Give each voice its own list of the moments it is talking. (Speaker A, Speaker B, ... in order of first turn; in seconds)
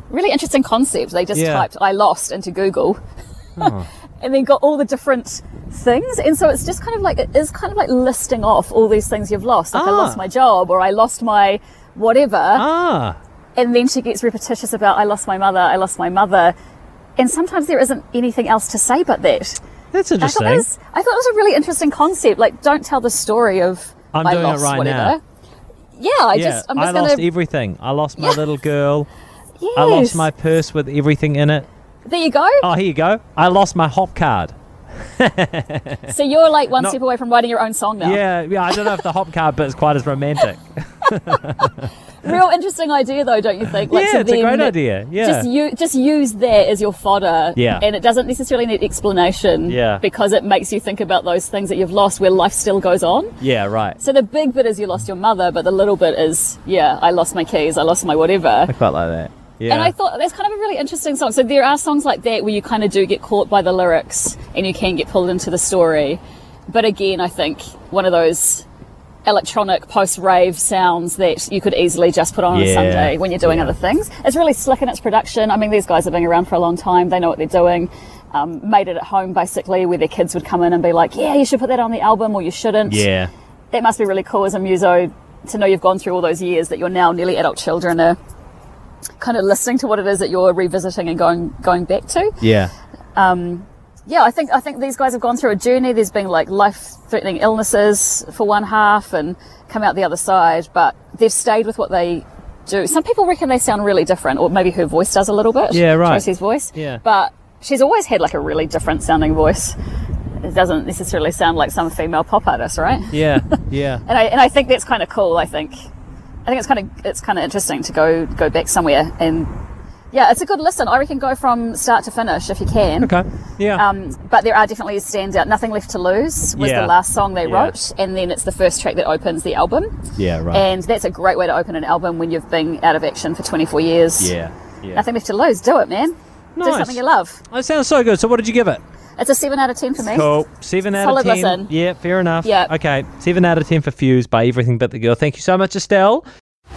Speaker A: 0.1-3.0, 3.6-12.7, 13.6-16.6, 17.2-19.6, 20.2-25.2, 26.0-27.3, 29.6-30.3, 32.1-32.7, 36.1-39.0, 41.5-53.4, 54.0-58.7, 59.7-68.7, 69.2-83.1, 83.7-88.2, 89.2-92.4, 93.2-109.8, 110.4-113.5, 114.1-115.7, 116.5-119.5, 120.1-123.1, 123.7-129.9, 130.5-134.3, 134.9-137.4, 139.2-140.3, 140.9-141.7, 142.4-142.7
Speaker B: 1.3-1.7, 3.6-3.9, 9.7-10.2, 12.6-13.2, 19.9-20.7, 24.1-25.2, 26.3-29.1, 29.8-31.7, 32.6-34.5, 35.1-36.1, 38.0-41.9, 43.9-45.5, 47.6-47.9, 49.7-50.0, 53.4-54.0, 58.7-59.9, 72.5-73.8, 82.9-83.3, 92.4-92.7, 105.7-107.0, 113.1-114.0, 123.0-123.8, 126.6-127.8, 130.2-130.7, 134.2-135.1, 136.6-138.8, 140.0-146.2